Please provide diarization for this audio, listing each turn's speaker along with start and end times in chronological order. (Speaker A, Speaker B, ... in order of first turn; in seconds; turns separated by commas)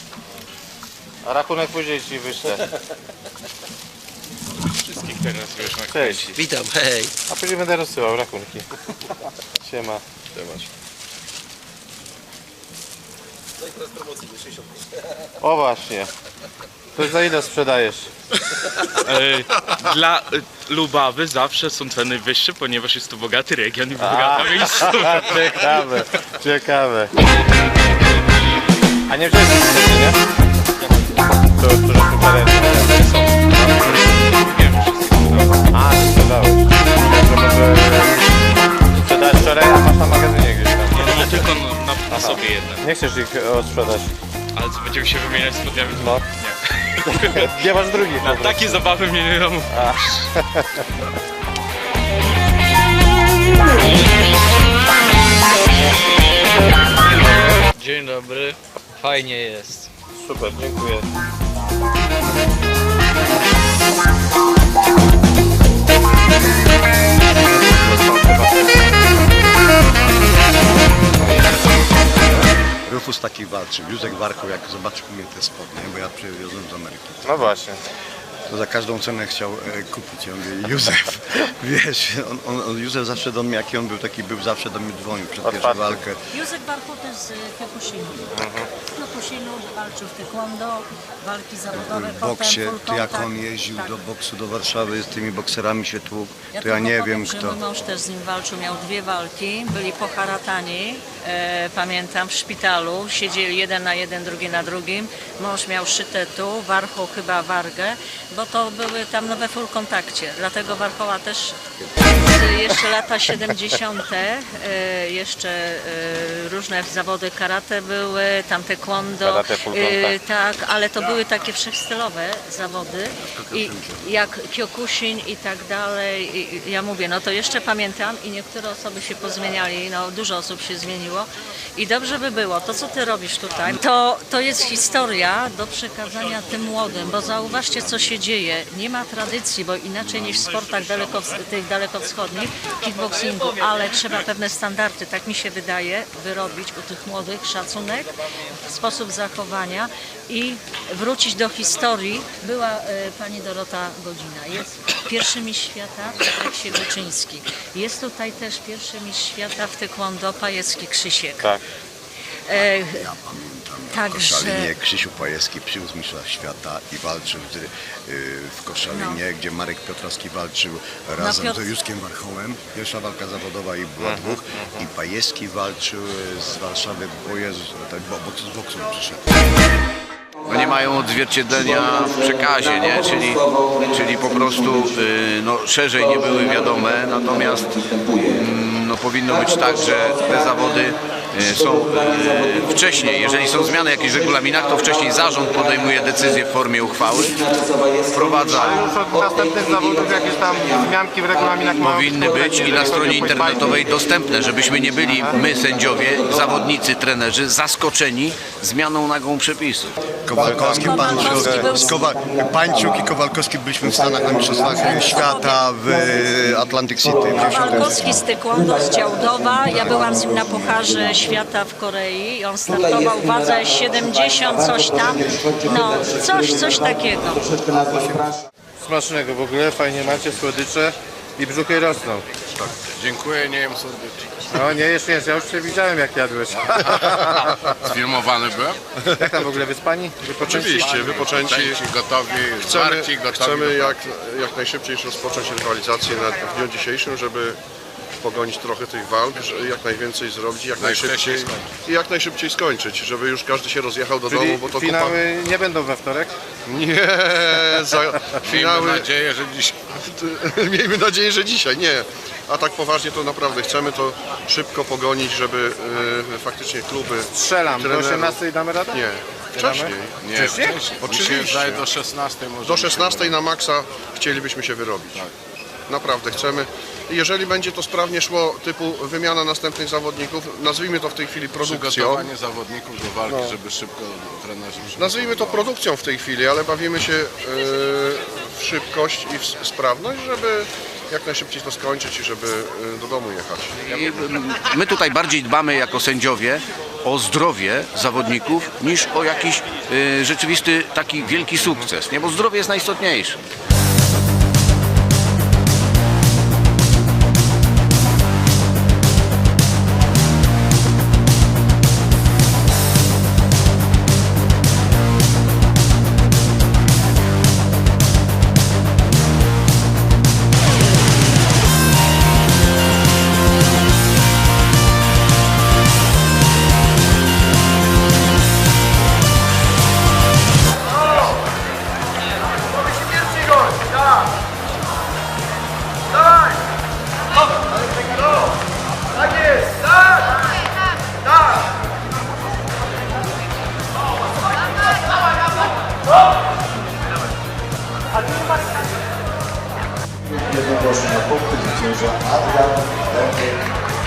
Speaker A: 1.2-2.6, Speaker B: 4.8-6.4, Speaker A: 5.9-6.3, Speaker A: 7.3-8.7, Speaker A: 9.6-10.0, Speaker A: 15.4-16.1, Speaker A: 16.9-18.1, Speaker B: 18.9-25.5, Speaker A: 24.0-27.1, Speaker A: 29.1-30.2, Speaker A: 31.6-34.0, Speaker B: 32.9-35.6, Speaker A: 35.7-38.3, Speaker A: 38.9-41.3, Speaker B: 40.9-42.8, Speaker A: 42.1-44.1, Speaker B: 44.5-47.5, Speaker A: 45.9-46.2, Speaker A: 47.1-48.8, Speaker B: 48.2-50.2, Speaker A: 49.7-50.8, Speaker C: 57.8-59.9, Speaker A: 60.1-61.1, Speaker A: 67.4-68.8, Speaker D: 72.7-77.5, Speaker A: 77.2-77.8, Speaker D: 78.5-86.2, Speaker A: 85.4-86.0, Speaker E: 86.3-94.0, Speaker A: 88.3-88.7, Speaker D: 91.7-97.6, Speaker E: 96.5-161.5, Speaker D: 111.8-112.1, Speaker A: 119.2-120.2, Speaker D: 123.2-124.3, Speaker D: 136.7-138.2, Speaker E: 162.5-163.1, Speaker D: 162.5-179.3, Speaker E: 163.9-164.7, Speaker E: 168.9-169.2, Speaker E: 171.2-171.7, Speaker A: 174.0-174.8, Speaker F: 180.5-197.4, Speaker F: 198.1-198.7, Speaker A: 198.5-203.9, Speaker F: 201.8-209.9, Speaker A: 205.1-205.5, Speaker D: 210.2-218.2, Speaker A: 210.3-211.7, Speaker E: 210.7-212.1, Speaker G: 214.0-215.0, Speaker E: 214.7-215.6, Speaker G: 217.1-217.6, Speaker E: 217.3-227.5, Speaker A: 228.8-232.2, Speaker H: 232.6-234.5, Speaker A: 234.5-237.6, Speaker H: 236.7-238.9, Speaker A: 239.1-240.9, Speaker H: 240.3-244.0, Speaker I: 240.4-241.8, Speaker I: 242.6-247.6, Speaker I: 248.2-255.2, Speaker H: 250.8-251.7, Speaker A: 254.3-256.3, Speaker I: 256.6-259.1, Speaker H: 258.4-259.9, Speaker I: 259.9-268.4, Speaker A: 267.3-269.0, Speaker I: 268.9-270.2, Speaker A: 269.5-270.8, Speaker H: 270.1-273.4, Speaker I: 270.9-271.9, Speaker I: 272.6-275.2, Speaker I: 275.9-282.3, Speaker H: 281.6-285.7, Speaker I: 283.2-283.6, Speaker I: 284.9-293.9, Speaker F: 293.9-303.4, Speaker G: 350.5-353.1